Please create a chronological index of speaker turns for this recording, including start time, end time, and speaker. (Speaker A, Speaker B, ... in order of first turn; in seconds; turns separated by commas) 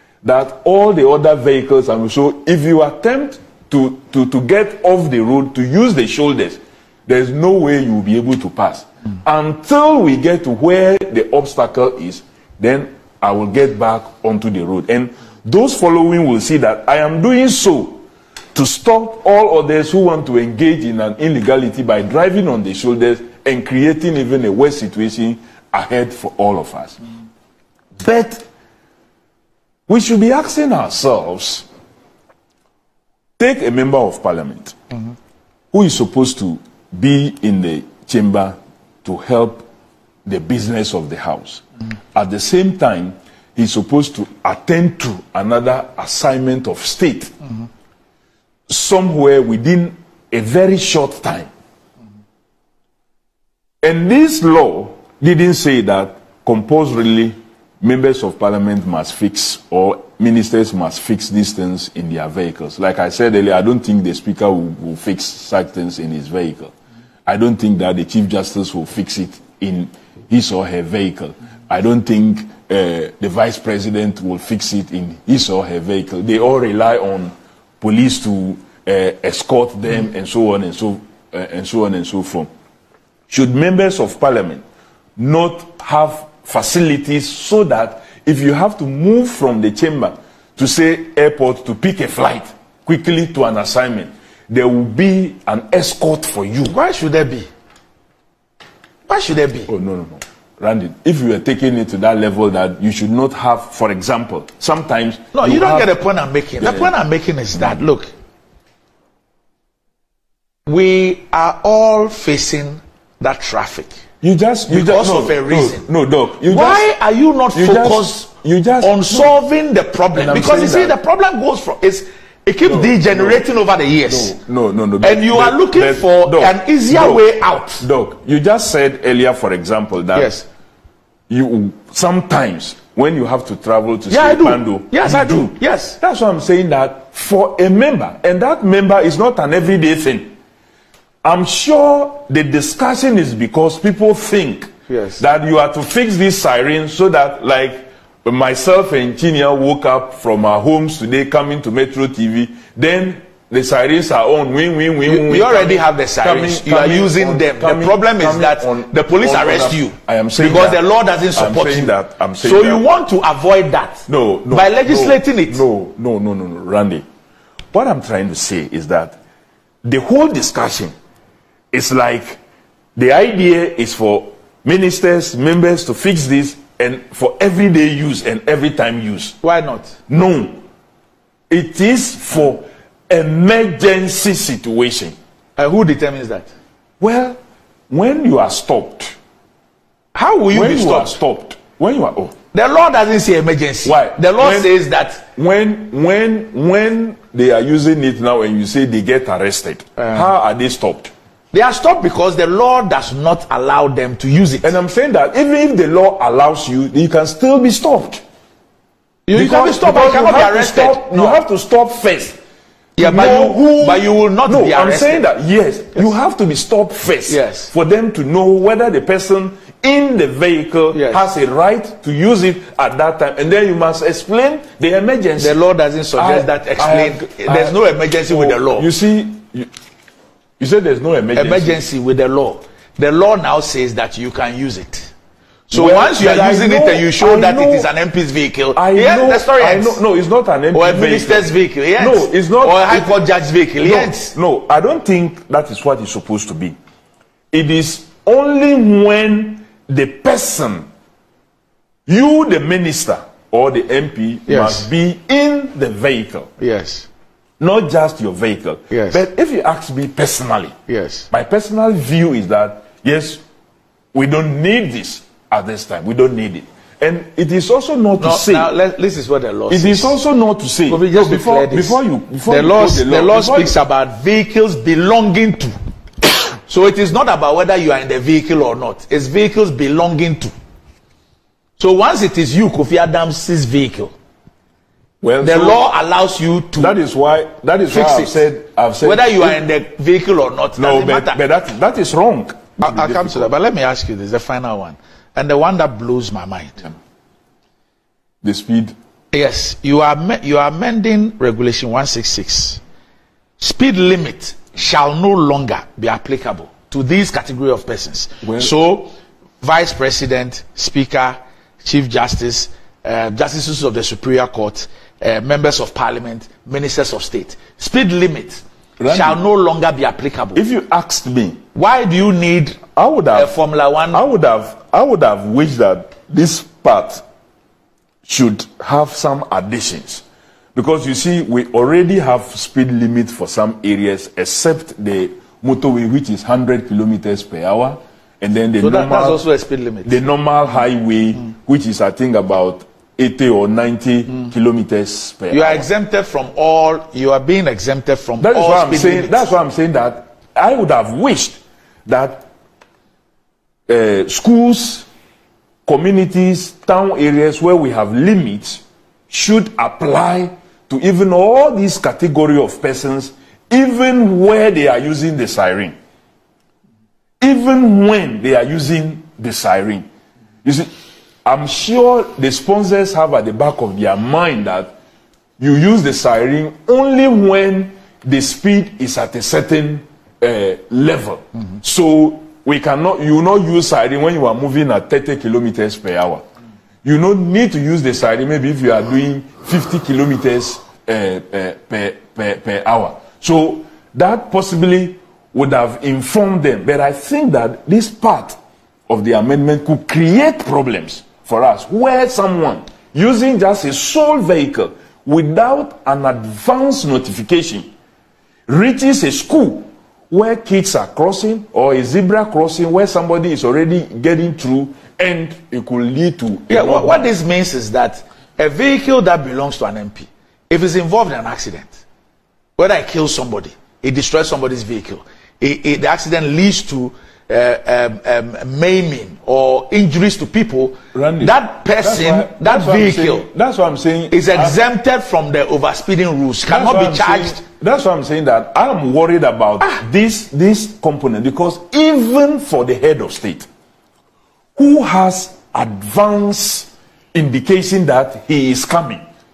Speaker A: 0.2-18.0, Speaker A: 18.6-27.0, Speaker A: 28.0-28.5, Speaker A: 29.9-31.7, Speaker A: 33.4-34.8, Speaker A: 35.7-39.7, Speaker A: 40.3-47.3, Speaker A: 48.7-51.5, Speaker A: 53.8-66.7, Speaker A: 67.3-82.5, Speaker A: 83.3-84.6, Speaker A: 85.2-96.8, Speaker B: 96.7-97.5, Speaker B: 99.1-99.7, Speaker A: 99.7-105.9, Speaker B: 105.3-108.1, Speaker A: 106.6-106.9, Speaker B: 110.7-114.0, Speaker A: 114.2-116.9, Speaker B: 114.7-115.9, Speaker B: 116.5-118.3, Speaker A: 117.5-119.3, Speaker B: 118.8-124.4, Speaker A: 120.1-121.0, Speaker A: 122.6-123.4, Speaker A: 124.1-127.3, Speaker B: 125.0-127.9, Speaker A: 127.8-130.3, Speaker B: 130.2-130.5, Speaker A: 131.3-140.3, Speaker B: 134.1-136.0, Speaker A: 141.2-160.8, Speaker B: 144.9-145.2, Speaker B: 155.1-165.6, Speaker A: 161.3-162.9, Speaker A: 164.1-167.0, Speaker A: 167.7-169.2, Speaker A: 169.8-170.9, Speaker A: 171.7-172.4, Speaker A: 173.0-179.4, Speaker B: 179.4-180.0, Speaker A: 180.1-180.6, Speaker A: 181.5-185.2, Speaker B: 185.6-186.5, Speaker A: 187.0-187.4, Speaker A: 187.9-189.1, Speaker B: 190.2-191.2, Speaker A: 190.5-192.3, Speaker B: 192.5-195.2, Speaker A: 193.8-194.7, Speaker A: 195.3-201.1, Speaker B: 201.5-204.8, Speaker A: 204.6-208.2, Speaker B: 209.3-211.4, Speaker A: 209.3-212.4, Speaker B: 213.0-215.3, Speaker A: 213.0-225.6, Speaker B: 217.3-217.7, Speaker B: 220.9-221.3, Speaker B: 225.4-228.9, Speaker A: 226.2-229.7, Speaker A: 230.6-231.8, Speaker B: 231.3-235.1, Speaker B: 235.7-240.0, Speaker A: 235.7-237.9, Speaker A: 238.7-243.2, Speaker B: 240.7-244.3, Speaker A: 243.8-246.8, Speaker A: 247.5-250.9, Speaker A: 252.1-256.5, Speaker B: 254.5-254.9, Speaker B: 256.6-257.1, Speaker A: 257.6-260.8, Speaker B: 258.9-259.2, Speaker B: 260.9-261.3, Speaker A: 261.3-263.4, Speaker A: 264.1-268.7, Speaker B: 268.2-270.2, Speaker A: 269.7-273.8, Speaker B: 270.9-275.7, Speaker B: 276.6-280.5, Speaker B: 281.8-284.1, Speaker A: 285.2-285.8, Speaker B: 285.4-287.0, Speaker A: 286.8-289.6, Speaker B: 287.9-288.4, Speaker B: 289.0-291.4, Speaker A: 290.8-293.5, Speaker B: 292.8-296.9, Speaker A: 298.4-298.9, Speaker B: 299.3-302.8, Speaker B: 303.6-320.6, Speaker A: 308.4-308.7, Speaker A: 319.0-319.4, Speaker A: 320.6-321.6, Speaker B: 321.7-324.2, Speaker A: 322.9-323.6, Speaker A: 324.1-327.2, Speaker A: 328.2-330.2, Speaker A: 330.8-339.4, Speaker B: 338.8-340.2, Speaker A: 340.1-345.9, Speaker B: 345.5-349.5, Speaker A: 348.4-352.5, Speaker A: 353.9-355.1, Speaker A: 355.9-365.9, Speaker A: 367.4-370.1, Speaker A: 370.6-370.9, Speaker A: 371.4-374.9, Speaker A: 375.6-386.4, Speaker A: 387.0-398.6, Speaker A: 399.1-407.9, Speaker A: 408.7-417.3, Speaker B: 416.7-422.0, Speaker B: 422.8-433.5, Speaker A: 431.1-434.8, Speaker B: 434.3-437.6, Speaker A: 436.7-443.7, Speaker A: 444.8-449.2